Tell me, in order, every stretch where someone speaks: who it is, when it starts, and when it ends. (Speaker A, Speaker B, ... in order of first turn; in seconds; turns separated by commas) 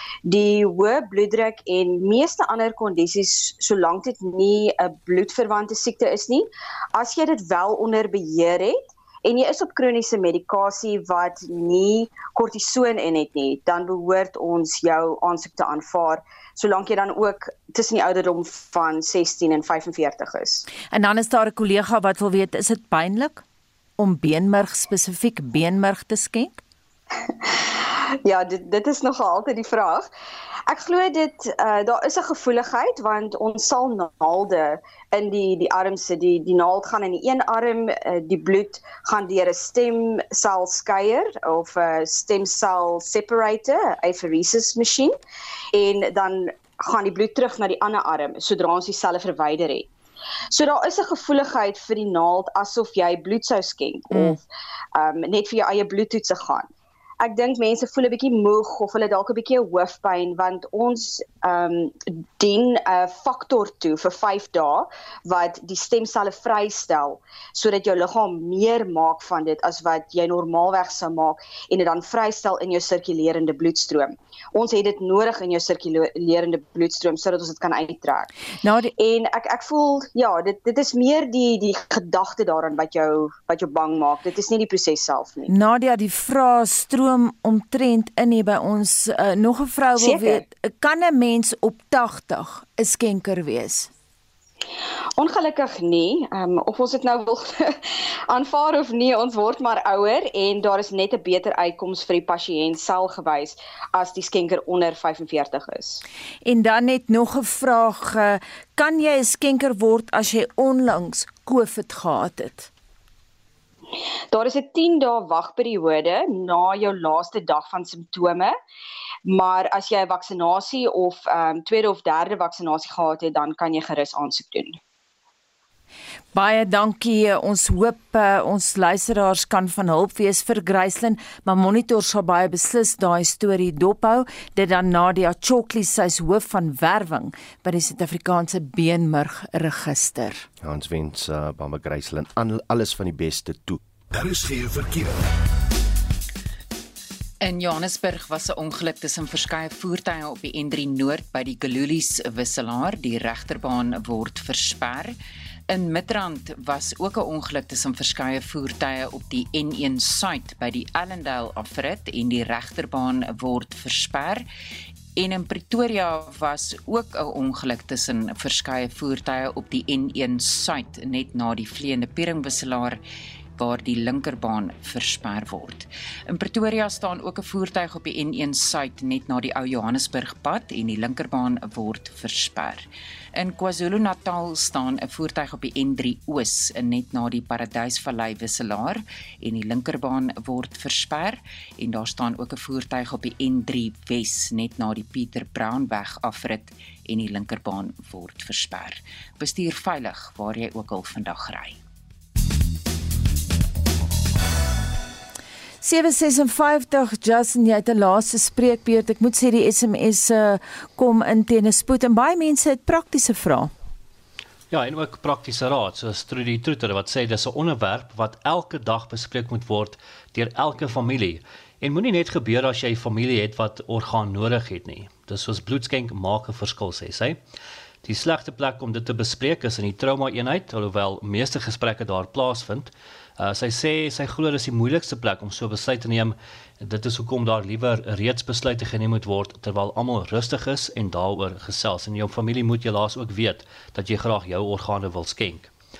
Speaker A: 0.3-20.6, Speaker B: 20.9-23.4, Speaker B: 24.0-26.6, Speaker A: 28.2-30.1, Speaker A: 30.7-45.1, Speaker A: 45.7-49.9, Speaker A: 50.5-54.4, Speaker B: 54.1-54.4, Speaker A: 55.0-56.6, Speaker A: 57.2-78.3, Speaker B: 78.6-78.9, Speaker A: 79.0-85.5, Speaker B: 85.5-93.9, Speaker A: 90.0-90.4, Speaker A: 95.2-97.5, Speaker A: 98.3-106.0, Speaker B: 106.4-112.7, Speaker A: 114.3-118.5, Speaker A: 119.3-124.7, Speaker B: 126.3-140.5, Speaker C: 140.6-143.8, Speaker D: 147.4-155.1, Speaker D: 155.7-164.4, Speaker D: 165.2-173.0, Speaker D: 173.6-201.8, Speaker B: 205.8-213.7, Speaker E: 214.7-227.4, Speaker E: 228.0-245.7